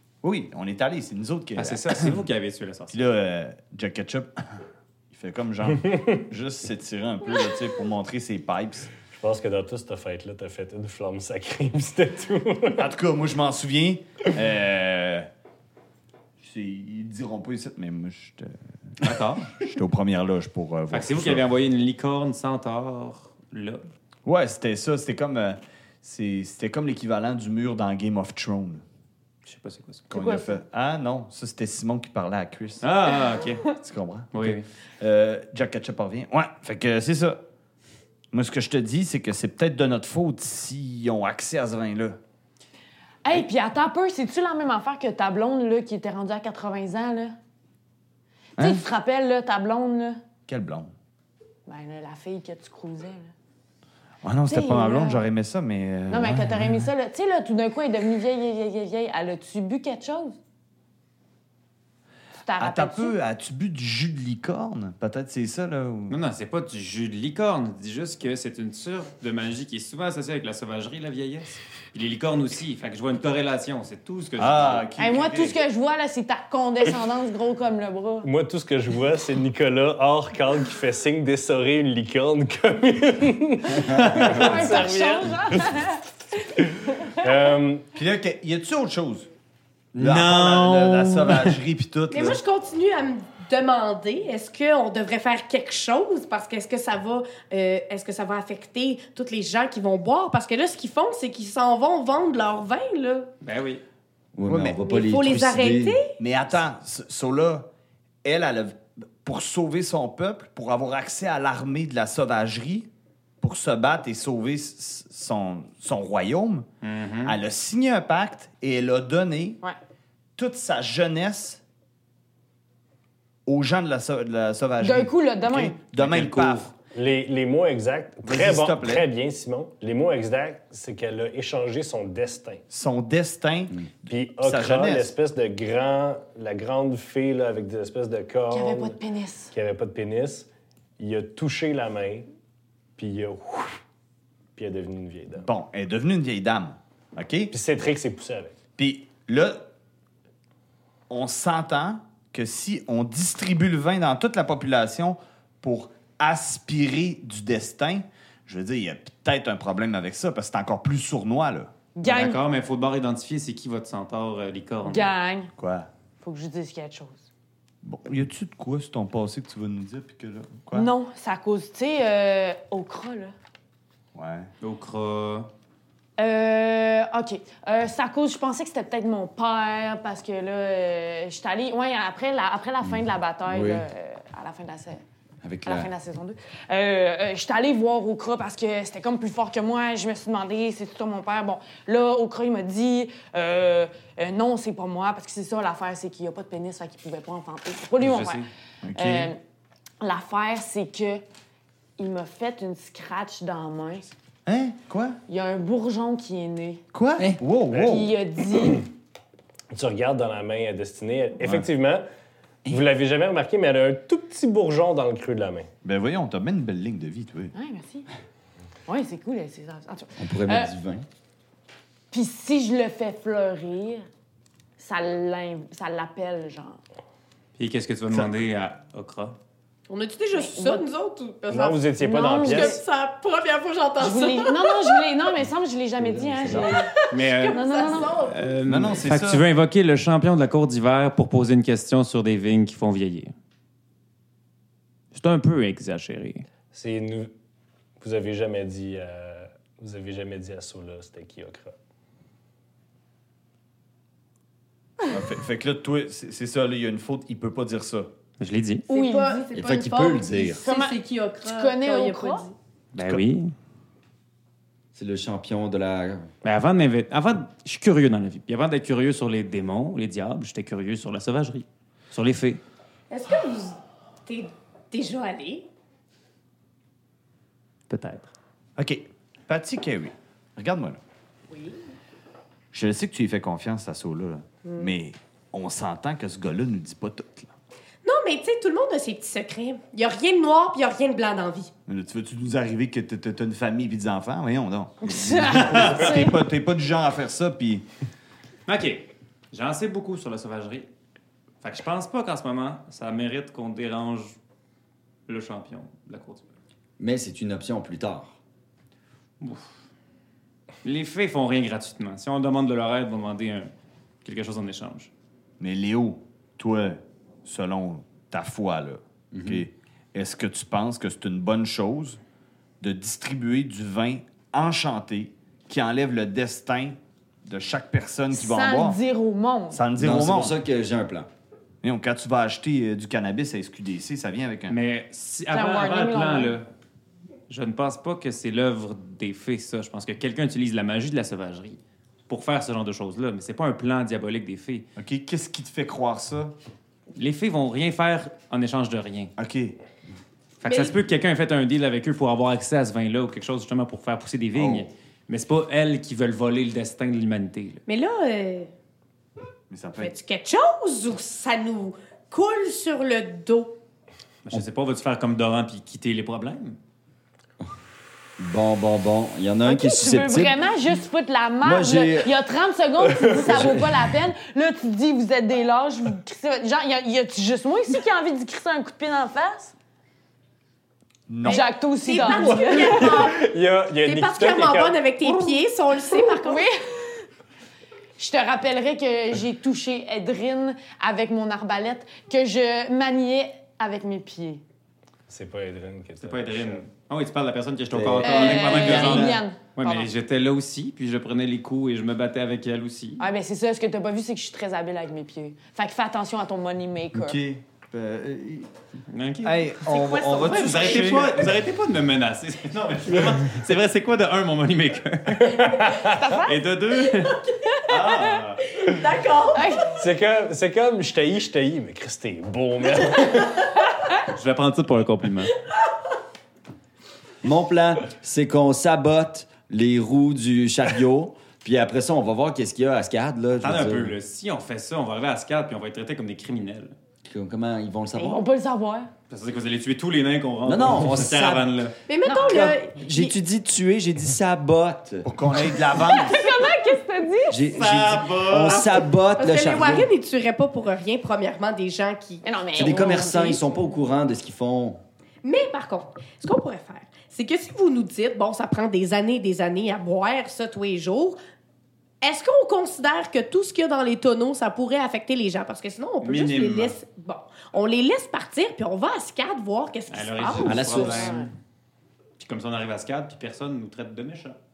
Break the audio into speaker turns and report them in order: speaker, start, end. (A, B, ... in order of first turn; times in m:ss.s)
0:00.2-0:02.2 A
0:01.6-0:03.0 B
0:02.9-0:04.6 A
0:05.1-0:08.9 A
0:09.1-0:12.9 C
0:12.8-0:15.3 A
0:16.4-0:21.4 A
0:19.0-0:19.5 B
0:20.9-0:23.9 B
0:24.2-0:28.8 A
0:29.4-0:30.1 B
0:30.1-0:32.8 A
0:30.1-0:30.6 D
0:32.8-0:33.6 B
0:33.8-0:37.4 A
0:34.3-0:34.7 B
0:38.3-0:42.2 A
0:43.2-0:47.3 D
0:48.6-0:50.2 D
0:50.5-0:50.9 A
0:51.6-0:53.3 D
0:54.2-0:56.8 A
0:54.5-0:55.3 D
0:56.1-1:00.4 D
1:02.4-1:03.2 D
1:02.6-1:06.2 A
1:06.1-1:14.9 B
1:14.4-1:15.6 A
1:15.0-1:18.3 D
1:18.2-1:25.8 C
1:24.0-1:24.5 B
1:24.1-1:26.0 D
1:26.5-1:27.9 C
1:26.9-1:27.3 D
1:27.9-1:29.3 A
1:29.9-1:31.6 B
1:30.0-1:32.4 A
1:32.1-1:43.3 E
1:43.4-1:43.8 B
1:44.3-1:46.0 F
1:44.5-1:44.9 A
1:44.8-1:46.2 E
1:46.2-1:47.7 A
1:48.2-1:52.9 A
1:53.4-1:56.7 A
1:56.8-1:57.4 B
1:57.2-1:59.6 A
2:00.4-2:01.6 A
2:03.4-2:06.7 A
2:04.8-2:05.9 D
2:06.0-2:06.6 B
2:06.9-2:12.6 C
2:08.2-2:09.0 A
2:12.7-2:13.9 A
2:14.0-2:19.0 C
2:14.4-2:15.1 A
2:18.5-2:19.5 D
2:19.5-2:22.3 C
2:23.0-2:23.8 C
2:24.6-2:25.5 C
2:25.4-2:27.5 A
2:27.5-2:28.5 C
2:28.8-2:29.7 A
2:31.1-2:41.7 A
2:41.9-2:42.4 D
2:42.0-2:45.1 B
2:44.8-2:45.5 D
2:45.6-2:45.9 A
2:46.2-2:47.3 D
2:47.8-2:50.9 A
2:50.7-2:53.3 D
2:54.1-2:54.5 A
2:54.6-2:55.5 B
2:56.2-3:05.0 D
3:02.8-3:03.8 F
3:05.4-3:05.9 F
3:05.6-3:19.4 D
3:18.0-3:18.5 B
3:18.8-3:19.3 A
3:20.0-3:21.2 D
3:22.0-3:24.1 D
3:24.4-3:25.2 A
3:25.3-3:26.8 D
3:26.9-3:28.1 A
3:27.8-3:28.9 D
3:29.7-3:32.0 C
3:32.7-3:35.7 C
3:35.8-3:37.5 A
3:37.5-3:38.1 D
3:38.9-3:40.7 D
3:40.2-3:41.0 F
3:42.1-3:44.0 D
3:44.8-3:46.8 D
3:47.6-3:49.4 B
3:49.9-3:55.0 E
3:50.4-3:50.8 D
3:51.5-3:52.8 C
3:52.0-3:52.8 D
3:54.0-3:58.2 D
3:56.0-3:56.8 C
3:56.7-3:58.6 E
3:57.1-4:03.3 B
3:58.6-3:59.4 A
4:05.1-4:06.4 B
4:06.7-4:07.3 C
4:08.0-4:11.7 C
4:15.1-4:18.1 A
4:18.4-4:18.8 B
4:18.9-4:19.5 D
4:18.9-4:22.5 E
4:19.5-4:20.6 F
4:20.6-4:22.5 D
4:22.9-4:23.5 B
4:24.9-4:26.3 F
4:26.4-4:32.6 B
4:33.1-4:35.7 E
4:37.9-4:38.3 B
4:38.8-4:41.0 A
4:41.5-4:41.8 E
4:42.7-4:47.5 A
4:48.0-4:51.7 E
4:51.9-4:57.8 A
4:55.0-4:56.4 D
4:55.6-4:56.1 B
4:58.7-5:00.9 B
5:01.6-5:04.4 B
5:05.3-5:06.4 B
5:07.0-5:08.4 F
5:09.4-5:09.7 B
5:10.8-5:13.7 B
5:14.2-5:15.1 B
5:15.6-5:22.2 A
5:19.3-5:19.6 F
5:22.8-5:29.0 A
5:28.3-5:29.9 D
5:29.7-5:30.6 A
5:30.0-5:31.3 F
5:31.8-5:34.8 A
5:34.7-5:36.7 B
5:35.5-5:36.6 D
5:37.5-5:44.9 B
5:45.0-5:46.5 A
5:47.1-5:49.3 B
5:49.4-5:49.8 A
5:50.6-5:57.8 B
5:50.6-5:51.0 E
5:54.5-5:54.9 A
5:57.9-5:58.7 E
5:59.7-6:00.1 A
6:00.0-6:03.8 E
6:04.4-6:06.8 B
6:08.4-6:10.6 F
6:09.6-6:19.7 D
6:11.6-6:12.3 F
6:13.4-6:14.0 F
6:21.3-6:21.7 A
6:21.4-6:23.2 D
6:21.5-6:23.4 E
6:22.2-6:25.0 C
6:24.0-6:26.6 E
6:26.1-6:27.2 D
6:28.2-6:34.6 D
6:35.3-6:36.9 C
6:36.2-6:43.2 B
6:37.9-6:39.4 F
6:38.2-6:40.1 D
6:43.2-6:47.4 D
6:47.1-6:48.7 A
6:49.1-6:58.6 B
6:49.4-6:51.5 A
6:50.3-6:51.1 D
6:55.4-6:56.2 C
6:56.0-6:56.5 D
6:57.8-6:58.2 D
6:58.6-6:59.9 E
6:59.5-6:59.9 D
6:59.9-7:03.6 C
7:04.3-7:05.5 B
7:07.4-7:14.2 F
7:13.6-7:16.9 B
7:17.2-7:18.4 F
7:18.2-7:19.1 D
7:19.3-7:22.0 B
7:20.6-7:21.7 F
7:22.1-7:23.3 E
7:22.2-7:22.7 D
7:22.4-7:25.3 F
7:25.2-7:26.5 A
7:25.9-7:27.7 D
7:27.5-7:30.1 F
7:27.7-7:29.0 B
7:29.3-7:33.1 E
7:32.4-7:33.6 D
7:32.7-7:35.0 F
7:35.4-7:41.4 E
7:42.2-7:50.8 E
7:46.2-7:47.0 B
7:50.1-7:51.5 B
7:50.6-7:51.4 F
7:50.7-7:51.5 D
7:52.4-7:54.6 B